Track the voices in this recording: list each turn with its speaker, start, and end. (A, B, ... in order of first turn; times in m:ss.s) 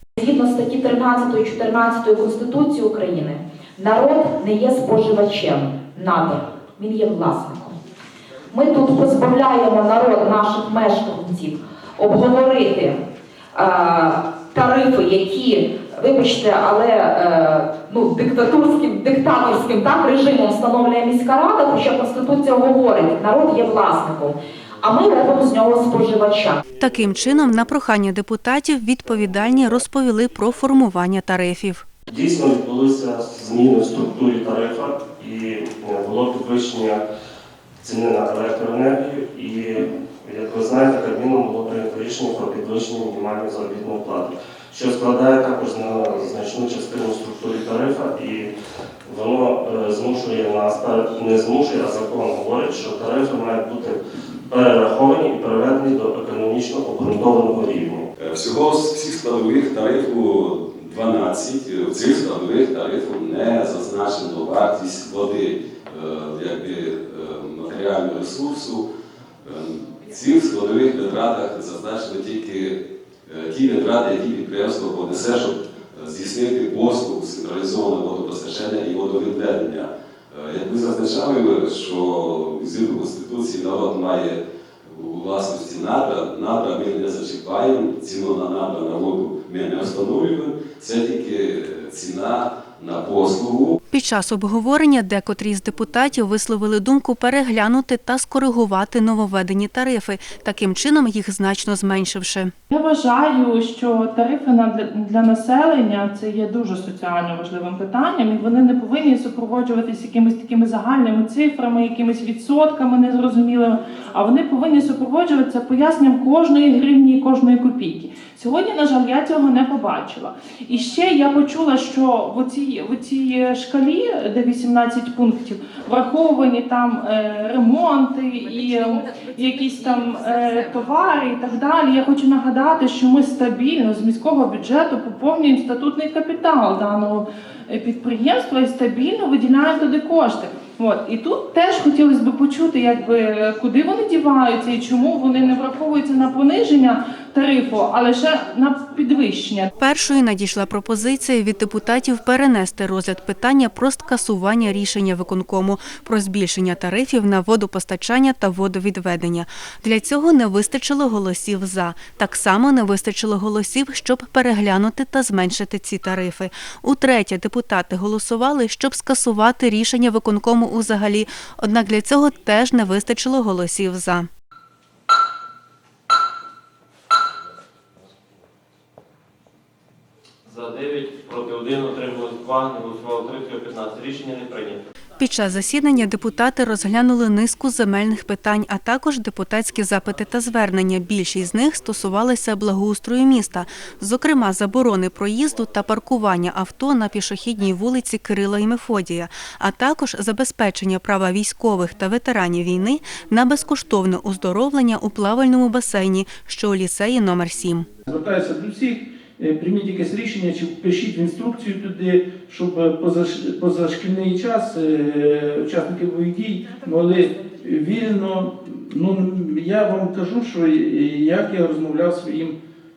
0:00.2-0:07.8 A
0:08.5-0:13.0 A
0:13.5-0:26.6 A
0:26.8-0:31.9 B
0:32.1-0:37.0 C
0:37.8-0:48.5 C
0:49.1-0:58.0 C
0:58.2-1:08.8 D
1:09.4-1:33.8 D
1:33.9-1:42.5 B
1:42.7-2:29.7 E
2:29.8-2:54.3 B
3:00.5-3:04.8 F
3:05.2-3:27.9 B
3:28.1-3:42.6 G